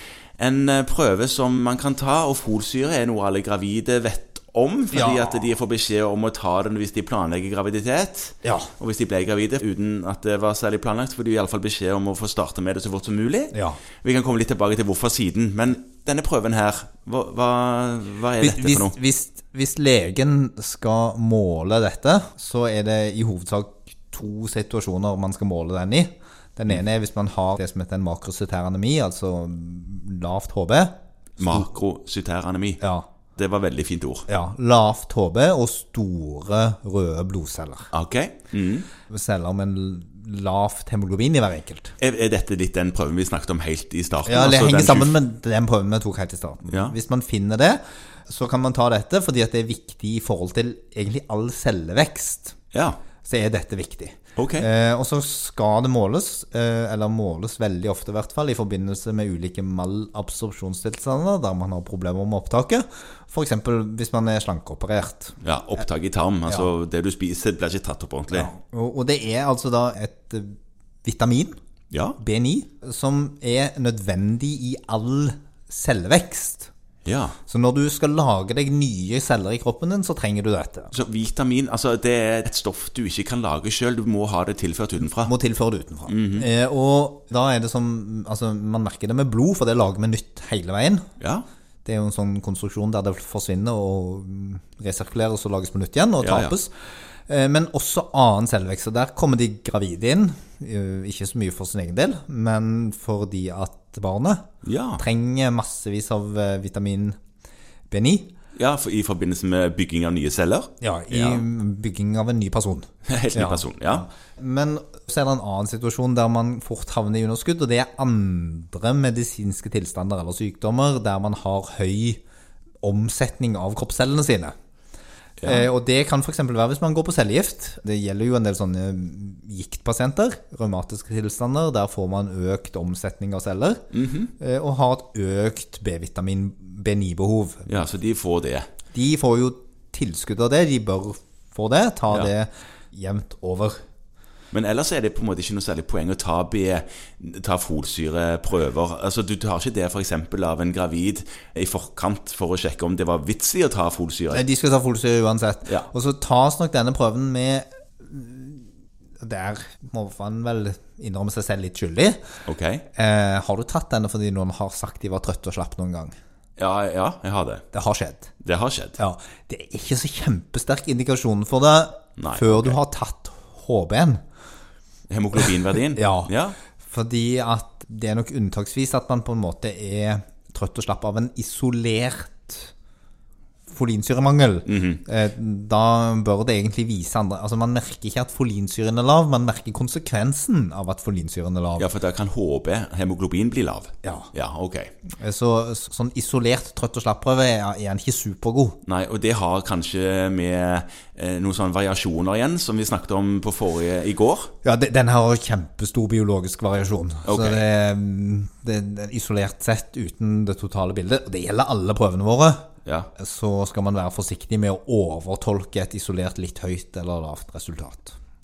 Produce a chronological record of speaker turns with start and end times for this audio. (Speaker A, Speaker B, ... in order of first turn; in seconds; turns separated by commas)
Speaker A: 0.4-19.0, Speaker B: 4.9-5.3, Speaker B: 8.4-8.7, Speaker B: 13.5-13.8, Speaker B: 18.4-31.6, Speaker A: 31.4-32.8, Speaker B: 32.8-33.1, Speaker A: 33.4-34.3, Speaker B: 34.3-37.9, Speaker A: 37.9-38.9, Speaker B: 39.1-42.0, Speaker A: 42.0-45.2, Speaker B: 44.3-52.6, Speaker A: 46.7-47.0, Speaker A: 52.7-53.0, Speaker B: 53.2-65.4, Speaker A: 54.4-54.7, Speaker A: 65.4-68.5, Speaker B: 68.3-71.6, Speaker A: 71.9-72.2, Speaker B: 72.2-76.7, Speaker A: 77.0-77.4, Speaker B: 77.5-80.9, Speaker A: 80.9-85.3, Speaker B: 85.2-91.0, Speaker A: 86.1-86.5, Speaker A: 91.2-91.5, Speaker B: 91.8-96.7, Speaker A: 96.2-96.5, Speaker B: 97.3-104.5, Speaker A: 104.6-105.0, Speaker B: 105.0-107.2, Speaker B: 107.9-108.3, Speaker A: 108.6-111.4, Speaker B: 110.8-122.2, Speaker A: 113.1-114.1, Speaker B: 122.8-124.5, Speaker A: 125.4-125.7, Speaker B: 125.4-133.8, Speaker A: 133.9-134.3, Speaker B: 134.4-137.7, Speaker A: 137.7-138.7, Speaker B: 138.9-143.8, Speaker A: 144.5-154.4, Speaker B: 154.3-158.7, Speaker B: 159.2-162.2, Speaker A: 162.5-162.8, Speaker B: 162.9-166.1, Speaker A: 166.6-167.6, Speaker B: 167.7-168.3, Speaker A: 168.4-169.0, Speaker B: 169.0-174.2, Speaker A: 172.2-172.8, Speaker A: 175.1-176.6, Speaker B: 175.4-176.3, Speaker B: 176.8-182.7, Speaker B: 183.7-191.9, Speaker A: 184.7-185.0, Speaker A: 191.8-194.9, Speaker B: 194.0-194.3, Speaker B: 195.2-198.8, Speaker A: 198.8-204.5, Speaker B: 204.6-212.7, Speaker A: 207.2-207.7, Speaker B: 213.2-218.2